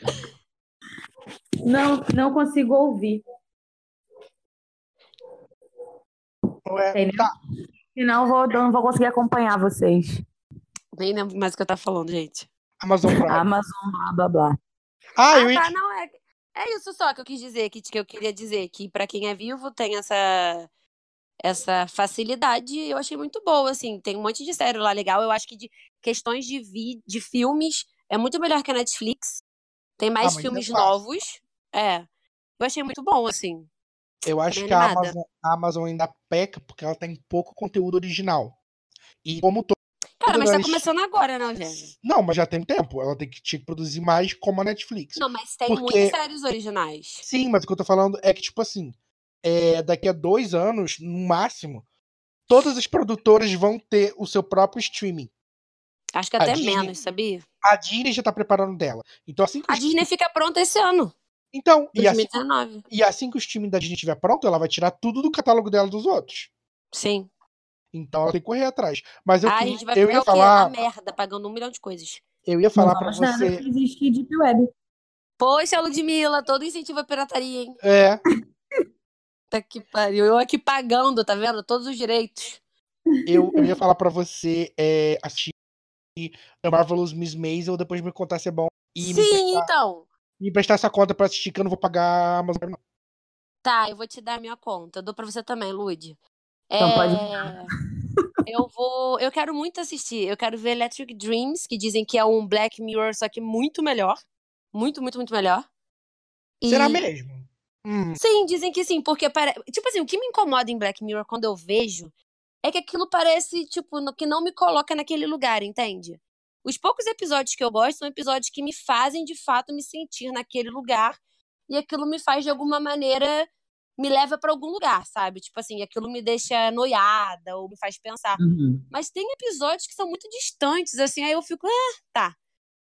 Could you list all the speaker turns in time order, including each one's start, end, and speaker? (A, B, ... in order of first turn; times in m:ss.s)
0:01.6-0:03.2 A
0:06.7-0:07.3 B
0:06.9-0:07.3 A
0:07.9-0:10.2 A
0:11.0-0:12.5 C
0:12.8-0:13.5 B
0:13.2-0:14.6 A
0:15.2-0:15.7 B
0:15.3-0:20.7 C
0:21.4-0:29.4 C
0:30.0-0:32.1 C
0:30.2-0:30.9 B
0:32.6-0:33.7 C
0:34.2-0:38.6 B
0:34.5-0:35.2 C
0:39.2-0:40.9 B
0:40.2-0:41.9 C
0:42.0-0:46.2 B
0:45.2-0:47.2 C
0:47.2-0:51.8 B
0:52.5-0:55.3 B
0:56.2-0:57.4 C
0:56.4-0:57.0 B
0:57.6-1:00.0 B
0:59.7-1:01.1 C
1:01.5-1:06.5 B
1:02.0-1:02.8 C
1:06.9-1:07.3 C
1:07.9-1:10.7 B
1:09.4-1:12.2 C
1:12.4-1:13.6 B
1:12.8-1:14.7 A
1:15.4-1:17.8 C
1:17.8-1:18.2 B
1:19.5-1:22.6 C
1:23.3-1:25.5 B
1:26.2-1:29.7 B
1:29.0-1:30.1 C
1:30.4-1:32.8 B
1:33.6-1:36.2 C
1:36.7-1:37.7 C
1:36.8-1:37.5 A
1:38.5-1:44.2 C
1:44.7-1:45.7 C
1:46.6-1:47.0 C
1:46.7-1:48.2 B
1:48.2-1:52.1 C
1:52.6-2:01.2 C
2:01.7-2:03.5 C
2:04.0-2:08.4 C
2:08.4-2:08.9 A
2:08.9-2:12.4 C